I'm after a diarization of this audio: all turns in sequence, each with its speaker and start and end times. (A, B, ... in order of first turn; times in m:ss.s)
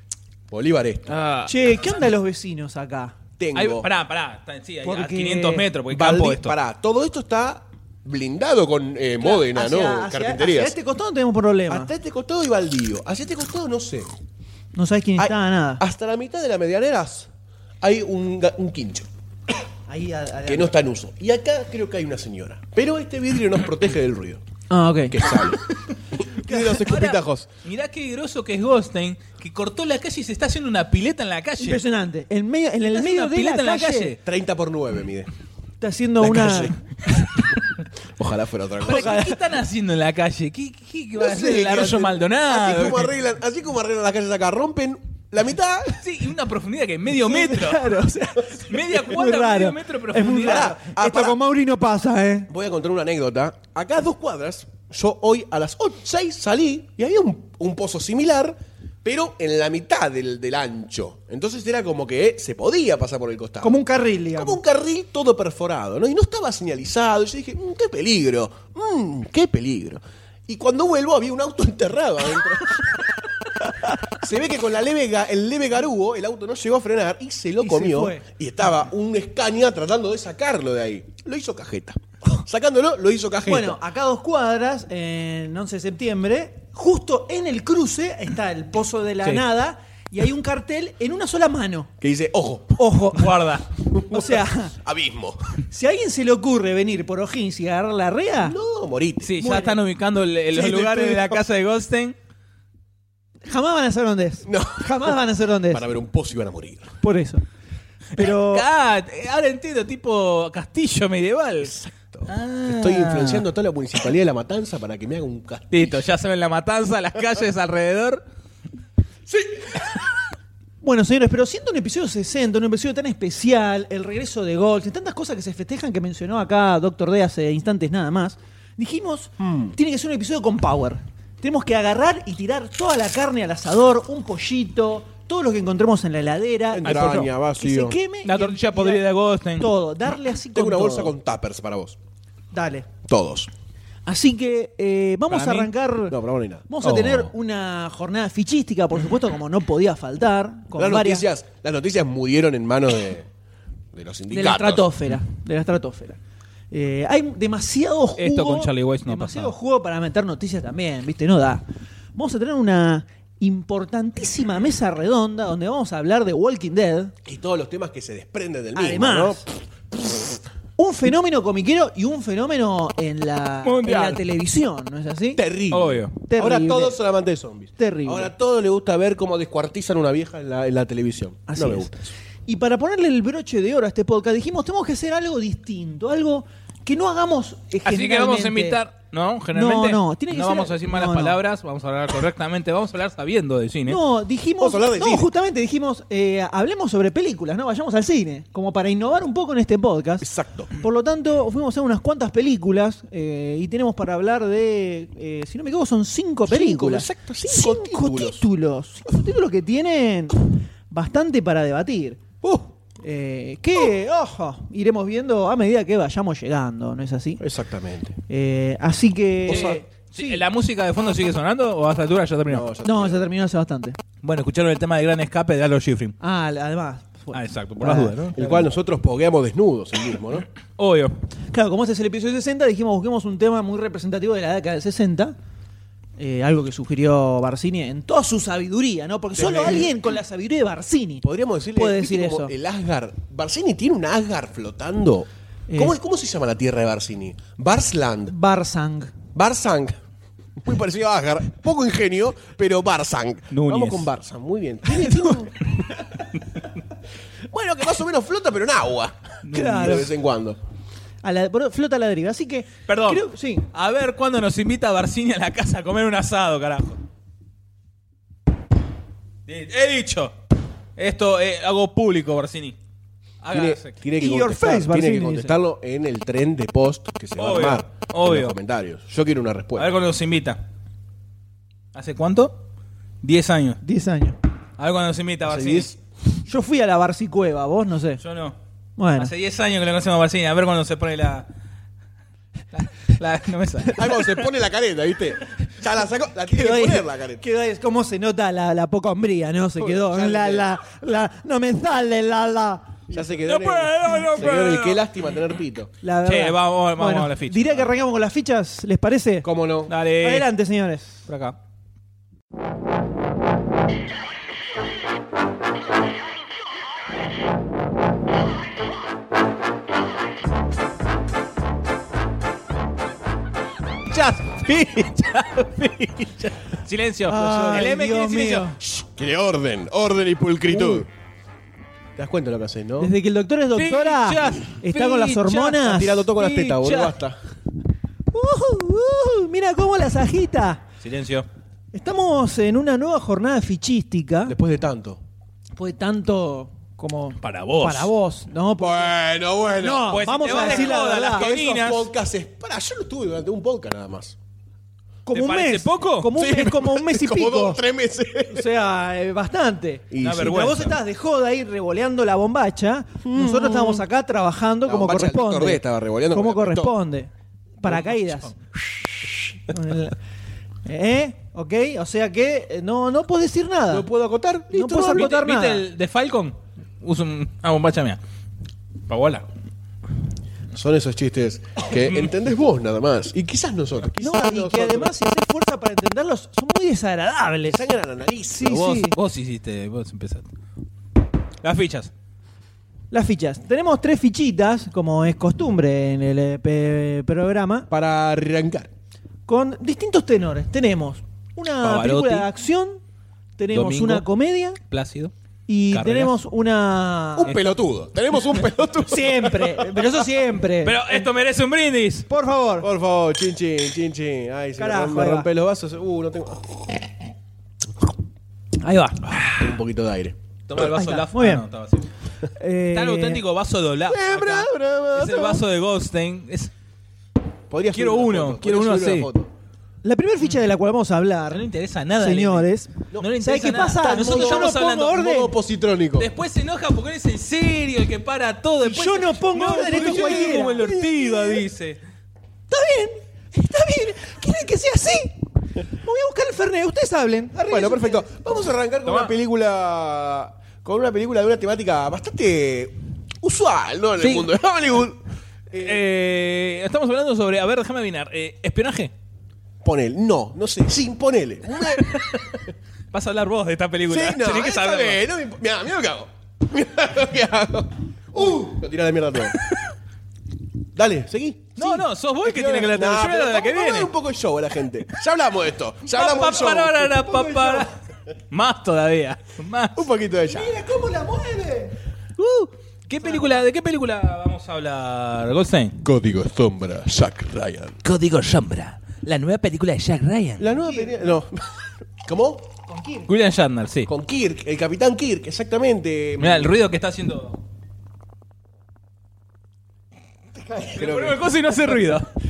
0:00.5-0:01.1 A
0:01.1-0:01.5 B
0:01.4-0:03.2 C
0:03.4-0:03.9 A
0:03.5-0:06.5 B
0:04.8-0:05.7 C
0:05.9-0:10.7 A
0:09.2-0:11.9 C
0:11.7-0:14.1 A
0:14.7-0:15.8 C
0:15.2-0:17.3 A
0:17.8-0:19.1 A
0:19.9-0:20.8 C
0:20.4-0:24.4 A
0:24.7-0:25.4 C
0:25.1-0:25.6 A
0:26.3-0:27.5 A
0:26.4-0:26.9 C
0:26.8-0:31.8 B
0:31.6-0:34.1 C
0:32.9-0:34.2 B
0:34.2-0:35.3 A
0:35.8-0:36.7 C
0:36.2-0:36.8 A
0:38.2-0:39.2 A
0:38.8-0:43.1 B
0:38.9-0:39.4 C
0:41.2-0:46.0 A
0:46.0-0:47.8 B
0:47.1-0:52.5 C
0:48.6-0:50.8 B
0:50.2-0:51.4 A
0:52.5-1:03.8 A
1:03.6-1:04.6 C
1:04.3-1:13.0 A
1:14.1-1:23.8 A
1:17.6-1:18.2 C
1:23.4-1:31.9 C
1:32.0-1:32.8 A
1:32.8-1:33.5 C
1:33.1-1:33.6 B
1:33.9-1:35.5 A
1:34.1-1:34.7 C
1:35.7-1:38.6 C
1:38.4-1:39.4 A
1:39.2-1:42.2 B
1:39.4-1:39.8 C
1:40.5-1:41.4 A
1:43.4-1:45.8 C
1:44.4-1:45.1 A
1:45.7-1:47.0 A
1:47.0-1:47.4 C
1:48.1-1:48.7 C
1:48.1-1:51.7 B
1:51.6-1:56.0 A
1:52.3-1:53.4 B
1:55.7-1:58.2 B
1:59.3-1:59.8 A
2:00.8-2:19.0 C
2:09.4-2:09.7 A
2:16.7-2:18.0 A
2:16.8-2:17.3 B
2:18.2-2:19.7 B
2:19.6-2:21.1 C
2:20.5-2:22.0 A
2:22.5-2:22.9 C
2:23.0-2:23.5 A
2:24.0-2:26.2 C
2:25.3-2:25.7 B
2:26.1-2:26.6 A
2:26.7-2:31.2 C
2:26.8-2:27.3 B
2:30.7-2:33.3 A
2:33.9-2:34.9 A
2:34.3-2:36.2 C
2:36.7-2:41.6 C
2:38.2-2:39.5 B
2:42.2-2:47.1 C
2:47.2-2:49.5 A
2:48.7-2:49.4 C
2:50.0-2:50.3 A
2:50.8-2:55.4 C
2:53.6-2:54.2 B
2:55.4-3:02.0 A
2:55.7-2:56.1 B
2:56.2-2:57.0 C
2:57.8-2:58.3 C
3:01.5-3:01.9 C
3:02.4-3:08.8 C
3:07.8-3:14.0 B
3:09.5-3:11.4 C
3:13.8-3:32.2 C
3:14.6-3:15.3 A
3:20.2-3:20.7 A
3:26.5-3:28.4 A
3:33.0-3:37.4 C
3:37.4-3:38.2 A
3:38.3-3:40.4 C
3:39.5-3:39.8 A
3:39.5-3:42.6 B
3:42.5-3:43.2 A
3:42.8-3:44.0 C
3:44.2-3:46.1 B
3:46.2-3:48.5 C
3:47.3-3:48.6 B
3:48.3-3:50.4 A
3:50.8-3:51.1 B
3:51.5-3:55.3 C
3:56.2-4:02.5 C
3:59.3-4:00.0 A
4:01.2-4:08.3 A
4:05.7-4:06.0 C
4:08.3-4:09.1 C
4:09.3-4:10.0 A
4:10.6-4:15.7 A
4:13.5-4:14.1 B
4:15.0-4:15.3 C
4:17.5-4:20.6 A
4:19.4-4:20.0 B
4:19.5-4:20.1 C
4:21.2-4:23.7 C
4:22.9-4:27.0 B
4:29.5-4:30.3 B
4:31.0-4:32.8 B
4:33.4-4:33.9 B
4:33.5-4:39.9 A
4:34.2-4:35.5 C
4:37.4-4:38.5 B
4:39.8-4:40.6 B
4:41.9-4:42.6 B
4:43.2-4:43.8 B
4:43.8-4:44.4 C
4:44.8-4:45.9 B
4:45.4-4:46.0 A
4:46.4-4:48.2 C
4:48.2-4:48.6 B
4:49.0-4:49.3 C
4:49.2-4:51.5 B
4:52.7-4:54.0 B
4:53.9-4:57.4 A
4:56.5-5:03.0 C
4:59.8-5:00.7 A
5:03.1-5:05.9 A
5:03.4-5:05.0 B
5:06.0-5:09.5 C
5:06.2-5:07.8 B
5:09.4-5:09.9 A
5:09.9-5:10.5 B
5:10.2-5:11.2 C
5:11.3-5:11.6 B
5:24.1-5:28.6 B
5:27.3-5:28.8 C
5:27.3-5:28.0 A
5:28.8-5:31.1 A
5:30.7-5:31.0 C
5:32.2-5:33.1 A
5:33.0-5:36.2 C
5:33.8-5:35.8 B
5:35.8-5:37.4 A
5:36.3-5:37.1 B
5:38.3-5:40.8 C
5:41.0-5:41.4 B
5:41.9-5:44.5 C
5:44.4-5:45.2 A
5:45.7-5:49.2 C
5:47.4-5:48.1 B
5:48.8-5:54.4 A
5:49.8-5:51.5 C
5:50.1-5:52.0 B
5:55.2-5:57.8 C
5:55.3-5:56.3 B
5:56.3-5:58.7 A
5:58.5-6:07.3 C
6:00.1-6:00.7 A
6:00.2-6:00.9 B
6:03.2-6:04.0 A
6:04.8-6:06.9 A
6:07.8-6:08.6 C
6:09.6-6:10.2 C
6:10.8-6:14.0 C
6:13.9-6:15.3 A
6:14.7-6:15.8 C
6:15.1-6:18.2 B
6:19.1-6:19.4 B
6:20.7-6:25.1 A
6:24.2-6:27.9 C
6:27.7-6:28.8 A
6:28.5-6:29.2 C
6:28.6-6:30.4 B
6:31.6-6:32.1 B
6:33.1-6:37.9 C
6:37.9-6:38.9 A
6:39.5-6:43.0 C
6:41.8-6:42.5 B
6:43.6-6:44.8 C
6:43.7-6:44.2 B
6:44.9-6:45.3 B
6:45.7-6:47.6 C
6:45.9-6:46.3 B
6:47.4-6:50.2 A
6:49.0-6:51.3 C
6:50.8-6:52.2 B
6:52.3-6:52.9 C
6:52.8-6:57.0 A
6:54.8-6:55.5 C
6:58.8-6:59.4 C
6:59.6-7:00.4 A
7:00.7-7:02.1 B
7:00.8-7:01.6 C
7:02.6-7:03.4 C
7:02.9-7:06.7 B
7:04.0-7:05.6 A
7:07.7-7:09.5 A
7:07.9-7:09.3 B
7:10.0-7:15.5 C
7:11.5-7:12.6 B
7:13.2-7:15.1 B
7:14.0-7:16.3 A
7:16.2-7:22.0 B
7:18.8-7:20.8 C
7:19.5-7:21.6 A
7:22.7-7:28.3 C
7:27.7-7:36.1 A
7:34.2-7:34.5 B
7:35.8-7:39.1 B
7:39.8-7:42.2 A
7:43.1-7:45.2 B
7:44.1-7:49.6 A
7:48.3-7:48.7 C
7:50.9-7:57.0 A
7:51.8-7:54.1 B
7:56.1-7:57.9 B
7:56.3-7:57.9 C
7:58.5-8:00.0 B
7:59.9-8:00.7 A
8:00.5-8:02.0 C
8:02.4-8:05.9 B
8:03.1-8:03.6 C
8:06.0-8:08.0 A
8:08.0-8:10.6 B
8:10.6-8:12.6 A
8:10.7-8:11.3 C
8:12.8-8:13.3 C
8:13.3-8:14.1 B
8:14.1-8:16.7 A
8:16.4-8:17.6 B
8:20.9-8:21.5 A
8:21.0-8:22.3 B